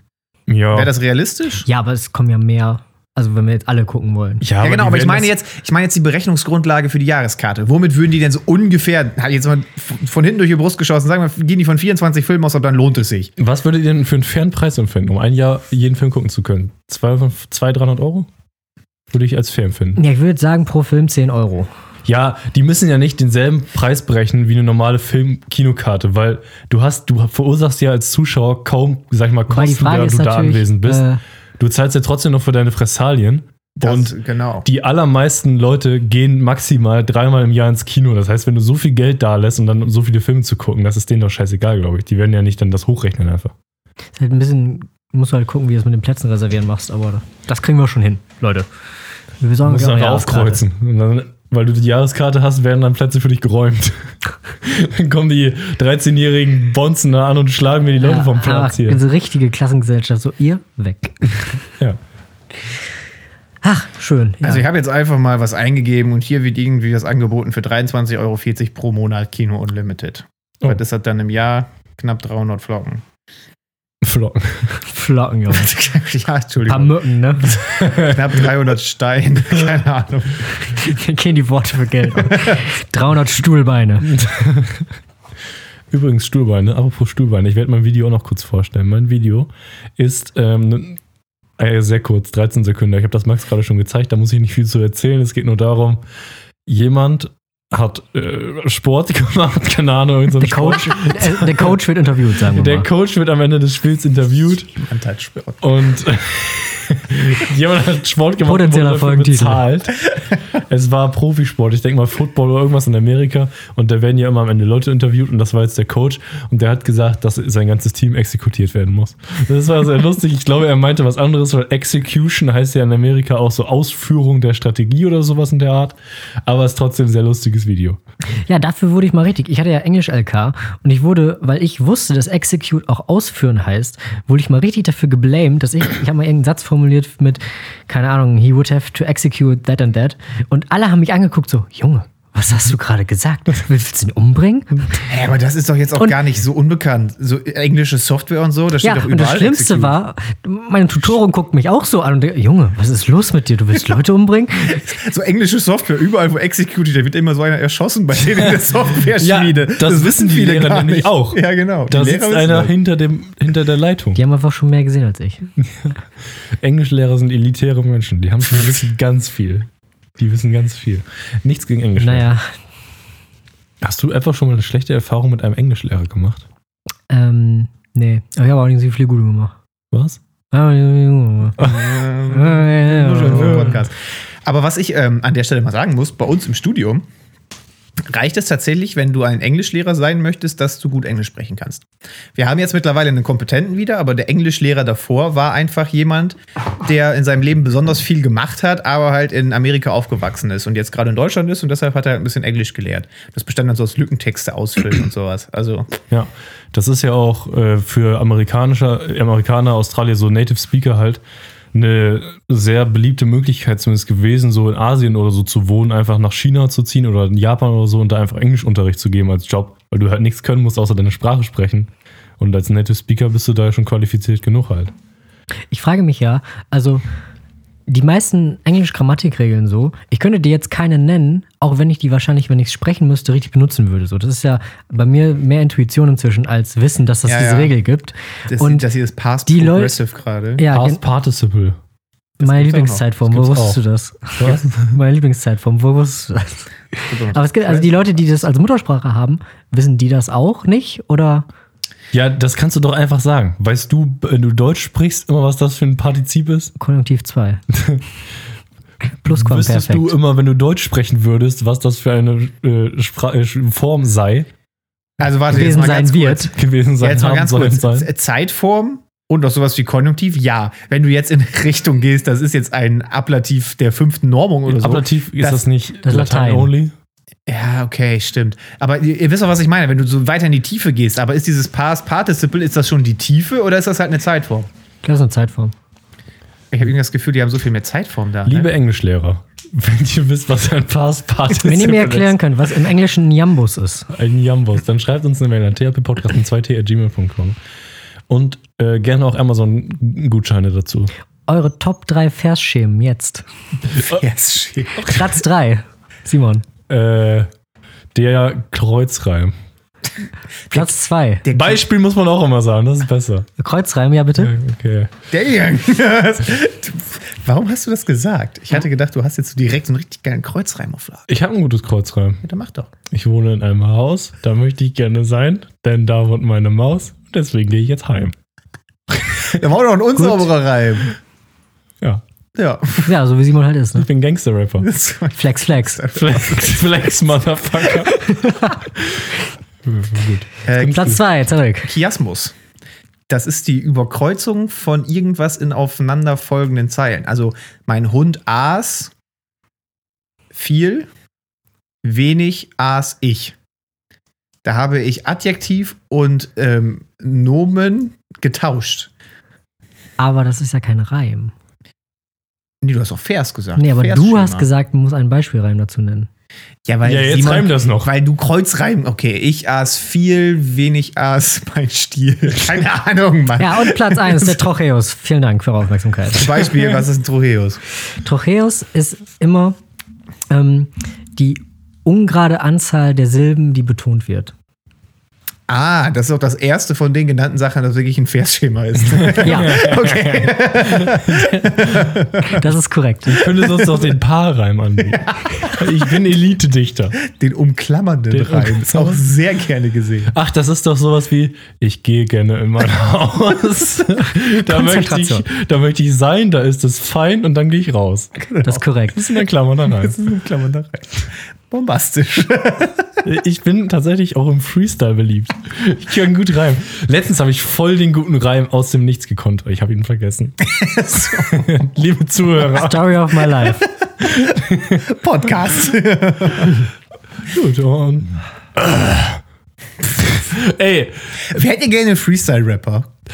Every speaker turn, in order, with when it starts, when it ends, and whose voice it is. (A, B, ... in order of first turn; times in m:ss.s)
0:00.5-0:00.9 A
0:00.7-0:01.7 B
0:01.7-0:04.4 C
0:04.4-0:05.3 A
0:04.6-0:13.3 B
0:13.4-0:18.3 A
0:19.1-0:20.0 A
0:20.0-0:21.7 C
0:22.1-0:31.0 A
0:29.5-0:31.2 C
0:31.6-0:43.5 A
0:33.8-0:34.7 B
0:44.2-0:48.7 C
0:49.4-0:50.6 C
0:49.6-0:59.0 A
0:58.0-1:01.6 C
1:03.6-1:04.7 C
1:04.4-1:13.0 B
1:14.0-1:14.8 A
1:14.8-1:15.8 C
1:15.5-1:20.5 B
1:16.7-1:17.6 C
1:17.6-1:18.4 A
1:20.7-1:24.1 C
1:22.2-1:22.6 B
1:24.0-1:24.9 A
1:25.9-1:31.0 A
1:31.6-1:36.0 A
1:36.7-1:41.7 A
1:40.4-1:42.9 C
1:42.5-1:44.7 A
1:44.7-1:45.6 B
1:45.6-2:08.0 A
1:48.5-1:49.7 C
2:08.5-2:25.0 C
2:25.1-2:30.0 B
2:28.8-2:34.8 C
2:34.7-2:42.7 B
2:39.2-2:44.2 A
2:44.2-2:45.5 C
2:45.6-2:46.0 A
2:46.6-2:52.3 A
2:52.0-2:52.5 C
2:53.8-2:56.4 A
2:57.1-2:59.6 C
2:59.9-3:00.2 A
3:00.5-3:03.8 C
3:01.6-3:01.9 A
3:01.6-3:07.0 B
3:03.2-3:03.8 A
3:08.0-3:25.9 B
3:26.1-3:31.2 A
3:31.7-3:44.9 A
3:45.7-3:47.0 C
3:47.9-3:58.9 C
3:57.3-3:57.7 B
3:58.5-4:00.6 B
3:59.5-4:00.0 C
4:00.6-4:01.0 C
4:00.7-4:01.8 A
4:02.4-4:03.0 B
4:02.4-4:11.4 C
4:03.3-4:03.8 A
4:04.4-4:05.0 A
4:07.1-4:08.1 B
4:12.1-4:16.7 A
4:16.8-4:17.6 C
4:17.7-4:18.0 A
4:19.2-4:20.1 C
4:19.3-4:24.5 A
4:25.2-4:35.6 B
4:25.5-4:26.5 C
4:26.5-4:28.1 A
4:34.7-4:36.9 A
4:36.0-4:36.7 C
4:37.5-4:44.7 B
4:45.0-4:45.7 C
4:46.7-4:48.7 B
4:48.5-4:52.3 A
4:51.6-4:54.1 C
4:54.1-4:57.6 A
4:58.3-5:01.1 A
5:01.5-5:03.4 C
5:04.0-5:05.2 B
5:05.0-5:06.6 C
5:06.9-5:07.5 A
5:08.1-5:09.5 A
5:10.7-5:11.4 C
5:11.4-5:11.8 B
5:11.5-5:13.5 A
5:13.6-5:14.5 C
5:14.4-5:15.1 A
5:15.3-5:21.3 B
5:21.3-5:22.4 A
5:22.4-5:22.9 B
5:23.1-5:28.3 A
5:29.4-5:31.1 B
5:32.6-5:33.1 B
5:33.1-5:34.1 C
5:34.0-5:34.9 A
5:34.8-5:37.0 B
5:35.3-5:36.1 C
5:36.1-5:39.3 A
5:38.1-5:38.8 C
5:39.8-5:41.2 A
5:40.7-5:41.1 B
5:40.8-5:41.9 C
5:41.8-5:42.6 B
5:43.3-5:49.1 B
5:50.5-5:51.1 B
5:52.0-5:53.6 B
5:54.6-5:59.1 B
6:00.2-6:01.5 C
6:02.8-6:04.7 B
6:03.8-6:06.3 C
6:06.8-6:14.6 B
6:07.0-6:08.1 A
6:13.6-6:16.5 C
6:16.4-6:17.8 B
6:18.2-6:19.8 C
6:20.5-6:24.5 C
6:25.7-6:32.6 B
6:29.1-6:32.2 A
6:29.4-6:29.8 C
6:32.4-6:33.6 C
6:33.3-6:37.2 A
6:37.2-6:40.3 B
6:38.3-6:39.2 A
6:40.3-6:48.4 A
6:44.4-6:45.4 C
6:48.4-6:48.8 B
6:48.6-6:49.2 C
6:49.1-6:50.2 A
6:49.9-6:53.1 B
6:53.2-7:00.6 A
7:00.6-7:01.8 B
7:01.2-7:03.6 A
7:02.7-7:03.9 C
7:04.2-7:05.1 A
7:05.0-7:06.8 B
7:07.4-7:09.4 A
7:10.2-7:11.4 A
7:11.4-7:13.1 B